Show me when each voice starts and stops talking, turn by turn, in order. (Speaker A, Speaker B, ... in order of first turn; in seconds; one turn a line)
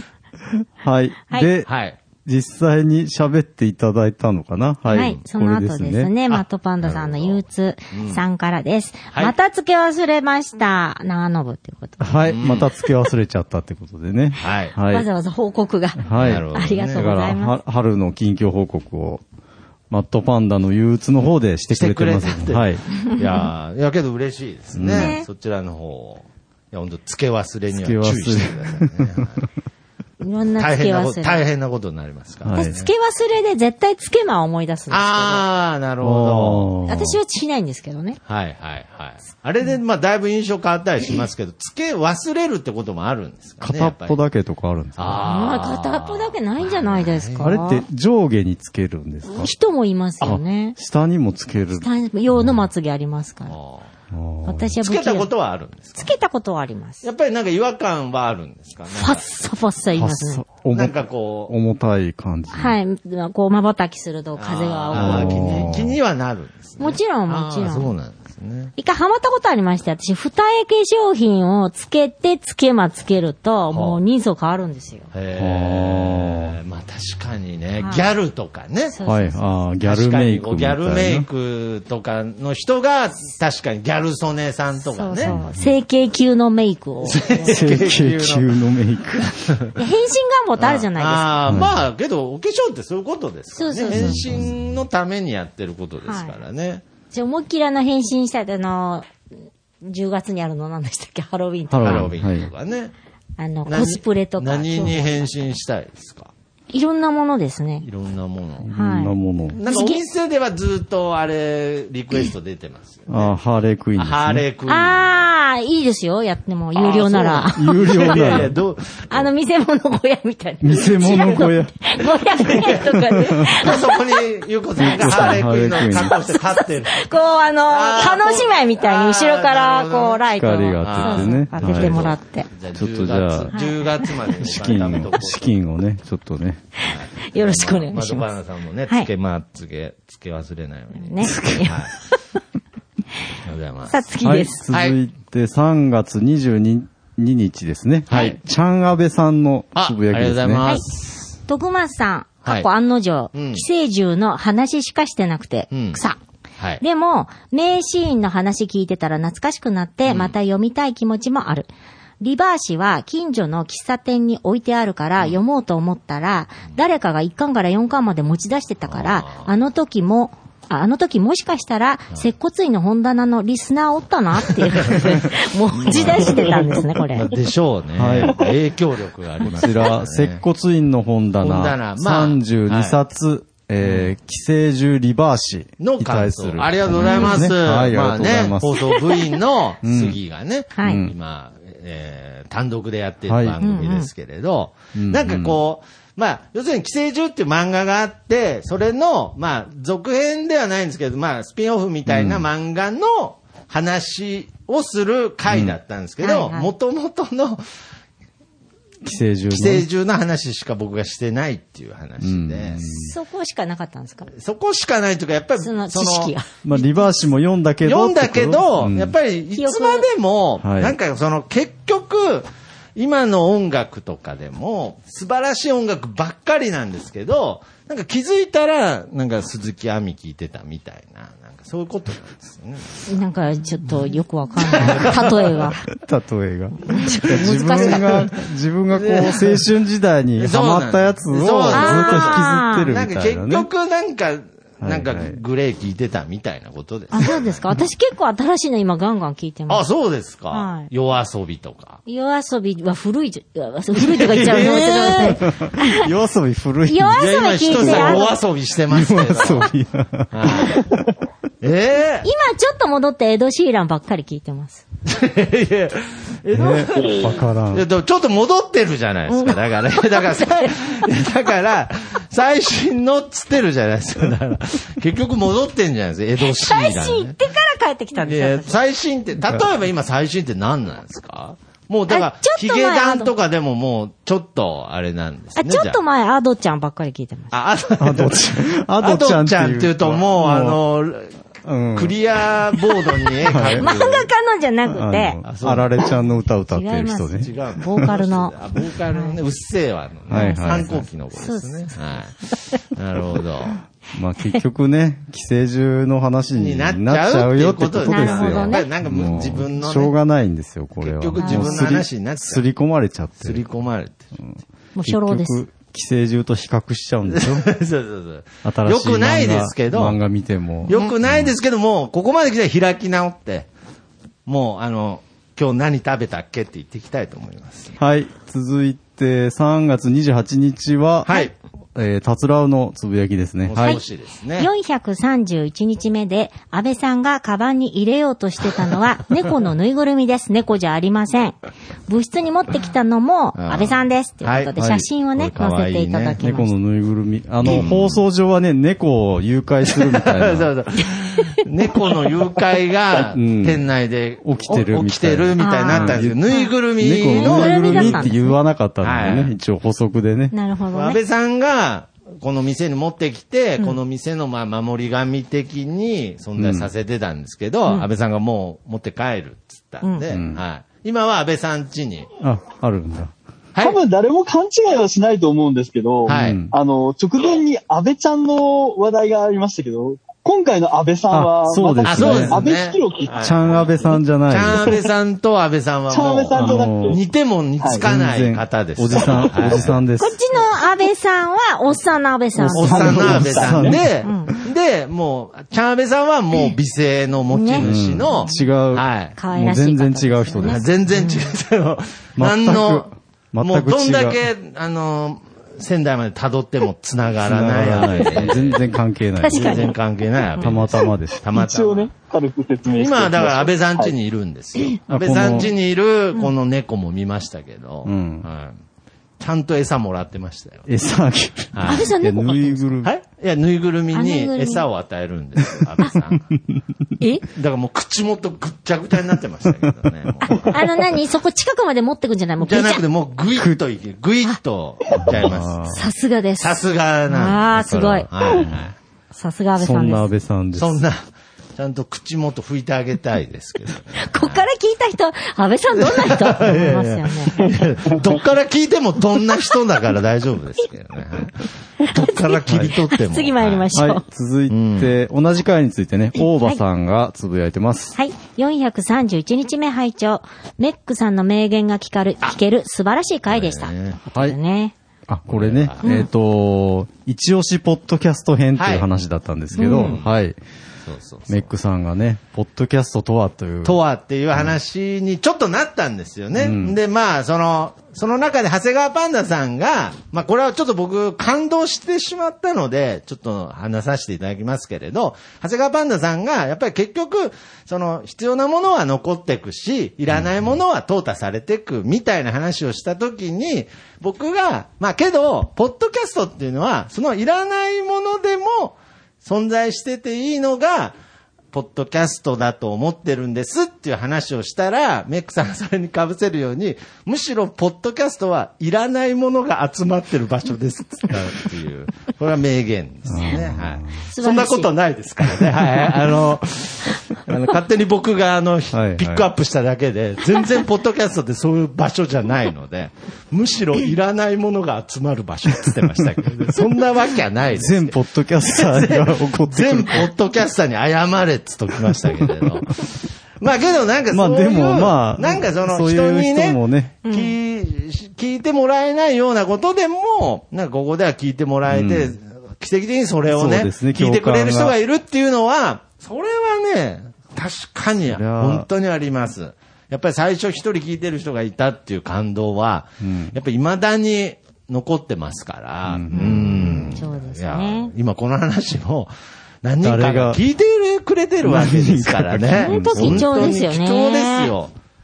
Speaker A: 0.5-1.7
Speaker B: 1.6-1.9
Speaker A: 2.2-6.1
Speaker C: 4.9-12.3
Speaker B: 6.3-8.2
Speaker A: 12.0-15.1
Speaker B: 12.3-12.7
Speaker B: 14.4-14.7
Speaker C: 14.9-17.6
Speaker A: 16.0-19.2
Speaker B: 16.1-17.0
Speaker A: 19.9-22.8
Speaker B: 21.7-29.4
Speaker C: 23.1-23.4
Speaker A: 24.7-25.1
Speaker C: 24.9-25.3
Speaker A: 27.7-29.3
Speaker C: 30.2-31.4
Speaker B: 30.6-32.9
Speaker A: 32.4-32.7
Speaker C: 32.5-35.4
Speaker B: 34.9-36.7
Speaker A: 36.0-37.2
Speaker C: 36.9-38.2
Speaker B: 38.2-44.2
Speaker A: 43.6-45.3
Speaker B: 45.0-47.5
Speaker C: 45.1-47.8
Speaker A: 47.4-49.5
Speaker C: 49.3-50.8
Speaker A: 50.2-52.6
Speaker C: 51.7-53.5
Speaker B: 53.5-53.9
Speaker A: 54.1-54.7
Speaker C: 54.5-55.3
Speaker B: 54.8-56.1
Speaker C: 56.0-57.1
Speaker B: 57.0-59.3
Speaker C: 58.9-60.4
Speaker A: 60.0-62.8
Speaker B: 60.7-61.5
Speaker C: 62.5-65.7
Speaker B: 64.4-68.7
Speaker A: 64.9-66.0
Speaker C: 66.8-67.9
Speaker C: 68.8-75.1
Speaker B: 73.7-74.0
Speaker B: 75.1-78.9
Speaker A: 75.4-76.6
Speaker C: 77.8-78.1
Speaker C: 78.9-79.4
Speaker A: 79.0-81.3
Speaker B: 79.8-85.4
Speaker C: 84.9-87.7
Speaker A: 85.2-85.7
Speaker B: 87.0-88.5
Speaker A: 87.4-89.4
Speaker B: 89.3-89.7
Speaker C: 89.8-91.4
Speaker B: 90.6-96.8
Speaker A: 91.5-91.8
Speaker C: 93.5-94.2
Speaker A: 93.9-94.5
Speaker C: 96.0-96.3
Speaker C: 97.1-99.1
Speaker C: 99.8-102.1
Speaker A: 101.7-102.5
Speaker B: 101.8-102.9
Speaker C: 103.4-105.5
Speaker B: 103.7-106.3
Speaker C: 106.7-107.9
Speaker B: 107.8-108.7
Speaker A: 108.6-109.6
Speaker C: 108.7-110.0
Speaker B: 109.5-113.4
Speaker A: 113.1-114.4
Speaker B: 114.0-115.3
Speaker C: 114.7-118.5
Speaker B: 116.7-119.3
Speaker A: 117.5-118.5
Speaker C: 119.1-124.2
Speaker A: 120.6-121.7
Speaker B: 121.0-121.3
Speaker B: 122.4-127.1
Speaker A: 124.8-126.1
Speaker C: 124.8-132.5
Speaker B: 127.7-130.2
Speaker A: 130.4-132.2
Speaker B: 130.8-135.5
Speaker A: 132.7-133.5
Speaker C: 133.5-134.1
Speaker A: 134.4-136.6
Speaker C: 136.8-138.3
Speaker B: 136.8-141.9
Speaker C: 140.9-142.2
Speaker B: 143.4-144.0
Speaker C: 143.9-144.6
Speaker A: 144.2-150.6
Speaker B: 144.7-145.0
Speaker B: 148.1-148.4
Speaker B: 149.7-151.4
Speaker C: 151.5-156.2
Speaker B: 153.3-153.6
Speaker B: 155.7-156.0
Speaker C: 156.8-161.7
Speaker B: 160.1-160.3
Speaker C: 162.2-177.3
Speaker B: 168.9-169.5
Speaker B: 174.8-180.4
Speaker A: 177.9-178.4
Speaker A: 179.4-188.8
Speaker B: 181.4-183.0
Speaker B: 183.8-184.1
Speaker B: 185.8-207.6
Speaker C: 187.0-187.4
Speaker C: 188.8-189.4
Speaker A: 189.8-190.2
Speaker C: 190.7-191.0
Speaker A: 190.8-191.1
Speaker A: 193.3-193.6
Speaker C: 193.6-194.1
Speaker A: 194.9-195.6
Speaker A: 202.1-202.5
Speaker A: 205.5-205.8
Speaker C: 206.2-206.7
Speaker A: 209.0-209.9
Speaker B: 209.5-212.9
Speaker A: 212.2-213.1
Speaker C: 212.9-214.3
Speaker B: 214.3-216.3
Speaker C: 215.6-217.2
Speaker A: 216.6-219.2
Speaker B: 217.8-233.1
Speaker C: 219.6-220.1
Speaker A: 220.6-220.9
Speaker C: 233.1-235.8
Speaker B: 234.6-235.2
Speaker A: 234.9-235.1
Speaker A: 235.9-243.7
Speaker C: 236.8-238.3
Speaker B: 237.3-238.3
Speaker B: 238.9-239.6
Speaker B: 240.4-247.6
Speaker C: 241.7-242.9
Speaker A: 244.8-245.4
Speaker C: 247.1-249.8
Speaker B: 249.7-252.0
Speaker C: 250.5-250.9
Speaker C: 252.1-256.0
Speaker B: 253.9-255.4
Speaker A: 255.2-258.2
Speaker C: 256.9-258.3
Speaker B: 257.1-259.7
Speaker A: 258.9-260.7
Speaker B: 260.3-260.9
Speaker B: 261.6-262.3
Speaker C: 262.2-264.8
Speaker B: 265.1-277.4
Speaker A: 266.5-267.8
Speaker C: 269.3-270.8
Speaker C: 276.4-278.8
Speaker B: 278.2-286.0
Speaker C: 282.1-283.3
Speaker C: 285.6-287.5
Speaker B: 287.5-291.3
Speaker A: 288.0-290.8
Speaker A: 291.6-292.2
Speaker B: 291.9-294.3
Speaker A: 293.5-293.9
Speaker C: 293.8-295.4
Speaker A: 294.9-297.5
Speaker B: 295.4-296.0
Speaker C: 296.7-298.5
Speaker B: 297.4-302.4
Speaker C: 299.1-299.4
Speaker A: 300.3-301.0
Speaker C: 300.3-301.9
Speaker C: 302.5-302.8
Speaker B: 302.9-303.8
Speaker A: 304.1-313.6
Speaker B: 306.5-310.1
Speaker C: 308.1-308.9
Speaker B: 311.0-312.6
Speaker C: 311.4-311.9
Speaker B: 313.4-314.2
Speaker A: 314.4-317.7
Speaker C: 314.9-315.6
Speaker B: 317.3-320.2
Speaker A: 318.6-321.5
Speaker B: 320.9-323.7
Speaker B: 324.4-327.9
Speaker A: 328.0-331.3
Speaker B: 331.2-331.5
Speaker A: 331.9-334.0
Speaker B: 333.6-334.7
Speaker C: 334.6-341.6
Speaker C: 342.1-346.7
Speaker B: 343.5-346.4
Speaker A: 344.8-345.0
Speaker A: 346.4-350.7
Speaker B: 347.6-348.2
Speaker B: 349.9-358.3
Speaker A: 353.2-353.8
Speaker A: 354.4-360.5
Speaker C: 355.6-356.7
Speaker C: 357.2-358.6
Speaker B: 359.0-359.5
Speaker C: 360.5-361.2
Speaker B: 360.9-372.3
Speaker A: 366.6-366.9
Speaker A: 370.3-370.6
Speaker A: 372.4-373.3
Speaker D: 373.8-384.1
Speaker B: 376.2-376.6
Speaker A: 376.2-376.7
Speaker A: 381.3-382.6
Speaker B: 382.0-383.9
Speaker A: 383.4-384.9
Speaker B: 384.5-390.0
Speaker D: 386.1-387.2
Speaker A: 386.5-387.2
Speaker A: 388.0-390.4
Speaker D: 389.2-389.8
Speaker C: 390.2-393.4
Speaker D: 392.6-394.0
Speaker A: 392.6-394.6
Speaker B: 392.7-399.4
Speaker C: 394.2-394.5
Speaker C: 397.5-397.9
Speaker A: 397.8-400.8
Speaker C: 399.4-401.5
Speaker B: 400.6-403.1
Speaker A: 402.4-404.4
Speaker B: 403.6-408.8
Speaker A: 407.4-409.9
Speaker C: 409.4-409.9
Speaker B: 409.5-412.1
Speaker A: 410.6-411.4
Speaker D: 411.5-414.1
Speaker B: 412.9-418.8
Speaker A: 415.1-415.7
Speaker A: 418.0-418.4
Speaker B: 419.4-420.9
Speaker A: 420.9-423.1
Speaker B: 421.7-422.1
Speaker C: 421.9-423.0
Speaker B: 423.0-426.4
Speaker C: 424.1-424.8
Speaker A: 426.5-426.8
Speaker C: 427.2-427.4
Speaker B: 427.5-430.8
Speaker C: 430.4-433.0
Speaker B: 432.6-435.9
Speaker A: 435.3-436.0
Speaker C: 435.9-438.3
Speaker B: 436.6-438.9
Speaker A: 437.7-438.8
Speaker C: 439.3-440.3
Speaker A: 439.8-441.0
Speaker B: 440.8-441.2
Speaker B: 441.8-444.6
Speaker C: 444.2-447.7
Speaker B: 446.0-453.9
Speaker C: 452.0-454.2
Speaker A: 453.9-458.1
Speaker B: 454.7-455.1
Speaker C: 456.4-456.8
Speaker C: 458.1-464.9
Speaker B: 463.5-464.2
Speaker A: 465.3-470.6
Speaker B: 465.5-466.0
Speaker C: 466.0-466.3
Speaker B: 468.8-469.1
Speaker B: 469.7-470.3
Speaker C: 469.8-470.1
Speaker B: 471.1-471.7
Speaker A: 471.5-474.0
Speaker B: 473.8-501.2
Speaker A: 476.5-477.0
Speaker B: 501.7-533.0
Speaker A: 513.3-514.2
Speaker C: 514.3-514.9
Speaker A: 518.9-519.5
Speaker A: 527.7-530.3
Speaker A: 532.1-532.7
Speaker B: 533.6-559.3
Speaker A: 534.3-537.1
Speaker C: 537.2-537.5
Speaker A: 541.9-542.3
Speaker A: 543.5-544.9
Speaker A: 548.3-548.9
Speaker A: 553.2-553.5
Speaker A: 556.0-557.2
Speaker C: 556.3-558.1
Speaker B: 559.8-564.9
Speaker A: 560.0-560.6
Speaker A: 561.6-563.7
Speaker C: 562.8-564.7